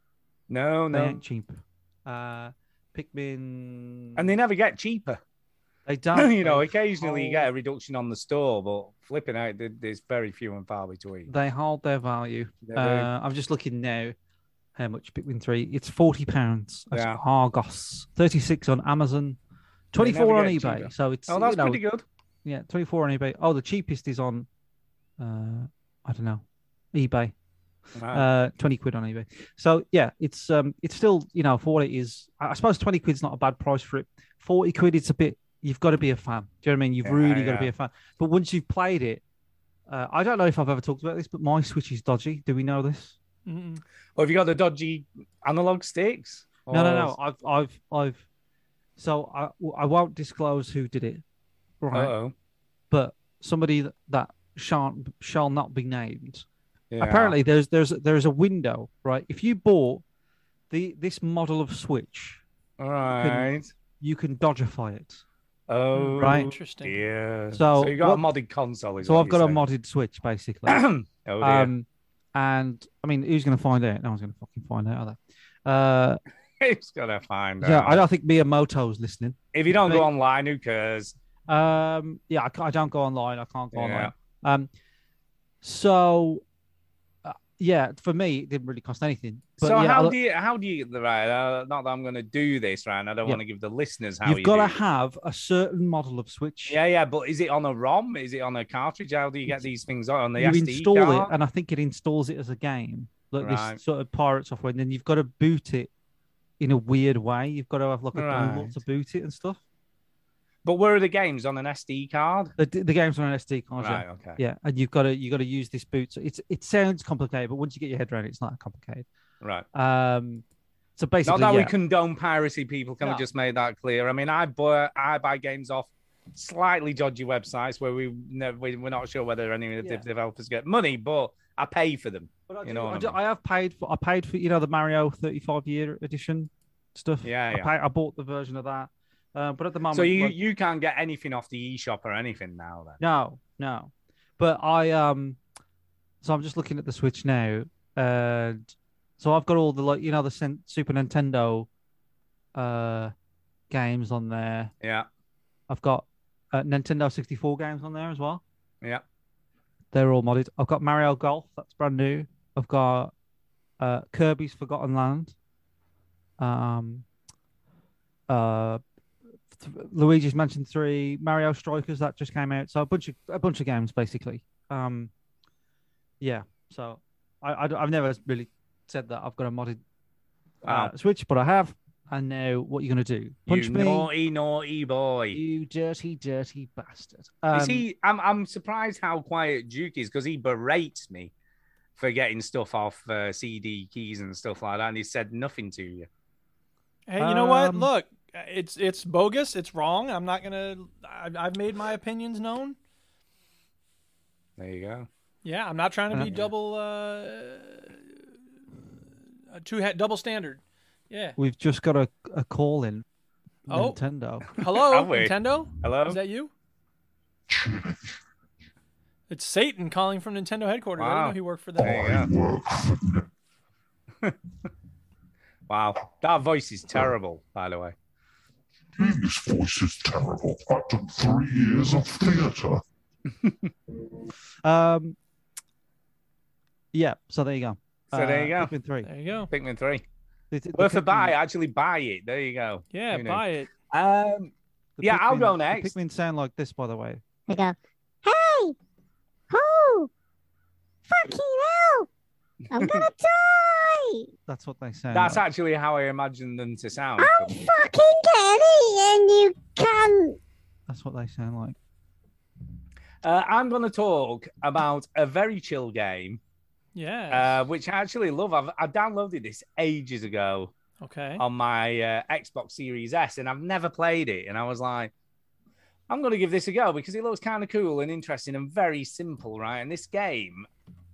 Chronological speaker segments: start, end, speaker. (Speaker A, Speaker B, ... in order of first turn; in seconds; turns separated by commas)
Speaker A: 0.5-1.2, Speaker B: 0.9-4.3, Speaker A: 4.2-5.2, Speaker B: 5.8-7.5, Speaker A: 6.1-11.3, Speaker B: 11.3-14.1, Speaker A: 12.6-13.1, Speaker B: 14.8-19.4, Speaker A: 16.9-17.2, Speaker B: 19.9-21.8, Speaker A: 20.0-22.0, Speaker B: 22.4-24.5, Speaker B: 25.2-27.3, Speaker A: 27.9-28.3, Speaker B: 28.1-39.2, Speaker A: 37.0-37.7, Speaker B: 39.9-43.1, Speaker C: 43.5-43.8, Speaker A: 44.2-47.1, Speaker B: 46.7-48.2, Speaker B: 49.0-51.2, Speaker B: 51.8-52.1, Speaker A: 51.9-52.3, Speaker B: 52.9-56.5, Speaker A: 56.9-57.4, Speaker B: 57.0-60.0, Speaker B: 60.7-62.4, Speaker A: 62.8-63.7, Speaker B: 63.1-65.2, Speaker A: 65.7-69.6, Speaker C: 65.9-67.0, Speaker B: 66.2-66.5, Speaker B: 67.5-68.2, Speaker B: 69.0-70.8, Speaker A: 70.7-71.7, Speaker B: 71.4-76.2, Speaker A: 76.6-78.0, Speaker B: 77.6-80.1, Speaker A: 79.5-81.1, Speaker B: 81.5-84.7, Speaker A: 83.7-84.1, Speaker B: 85.6-86.4, Speaker B: 87.2-90.2, Speaker A: 89.6-94.8, Speaker B: 94.2-96.8, Speaker A: 96.7-101.3, Speaker B: 100.3-105.9, Speaker A: 103.4-103.8, Speaker B: 106.6-109.6, Speaker A: 108.1-108.8, Speaker A: 110.6-112.5, Speaker B: 112.6-119.0, Speaker A: 113.8-114.4, Speaker B: 119.7-120.4, Speaker B: 121.0-121.7, Speaker A: 121.2-133.2, Speaker B: 123.0-123.2, Speaker B: 132.5-140.3, Speaker A: 137.2-137.7, Speaker A: 139.9-143.0, Speaker B: 143.0-145.4, Speaker B: 146.2-151.7, Speaker B: 152.5-153.1, Speaker B: 153.7-154.7, Speaker A: 154.8-155.1, Speaker B: 155.7-158.4, Speaker B: 159.9-163.1, Speaker B: 163.8-165.3, Speaker B: 166.4-167.1, Speaker B: 168.3-168.8, Speaker B: 169.5-175.1, Speaker B: 176.2-179.8, Speaker A: 180.6-180.9, Speaker B: 180.6-184.1, Speaker A: 183.5-185.4, Speaker B: 185.3-187.8, Speaker A: 187.5-191.3, Speaker A: 192.0-196.1, Speaker C: 197.1-202.8, Speaker B: 197.2-197.9, Speaker A: 204.6-205.1, Speaker C: 205.4-208.0, Speaker A: 206.2-206.5, Speaker C: 209.5-211.4, Speaker B: 211.4-213.0, Speaker C: 213.7-214.0, Speaker B: 213.7-214.5, Speaker C: 214.5-216.5, Speaker A: 214.7-216.2, Speaker D: 217.5-218.2, Speaker C: 219.3-222.0, Speaker A: 221.0-222.3, Speaker D: 221.8-223.3, Speaker A: 225.7-227.9, Speaker D: 229.0-232.8, Speaker B: 234.6-235.2, Speaker B: 236.9-239.1, Speaker A: 238.1-238.7, Speaker C: 239.0-239.5, Speaker A: 239.5-240.0, Speaker B: 240.5-241.3, Speaker A: 240.8-245.9, Speaker C: 242.9-243.7, Speaker B: 245.0-247.2, Speaker E: 247.5-248.7, Speaker E: 249.5-250.1, Speaker E: 251.1-252.1, Speaker A: 252.6-253.1, Speaker E: 252.7-254.3, Speaker B: 254.5-255.4, Speaker A: 255.1-257.5, Speaker E: 257.2-260.4, Speaker B: 260.9-261.8, Speaker A: 263.2-266.4, Speaker C: 266.9-267.6, Speaker A: 267.3-270.7, Speaker C: 271.0-271.4, Speaker A: 271.4-275.1, Speaker A: 276.1-280.7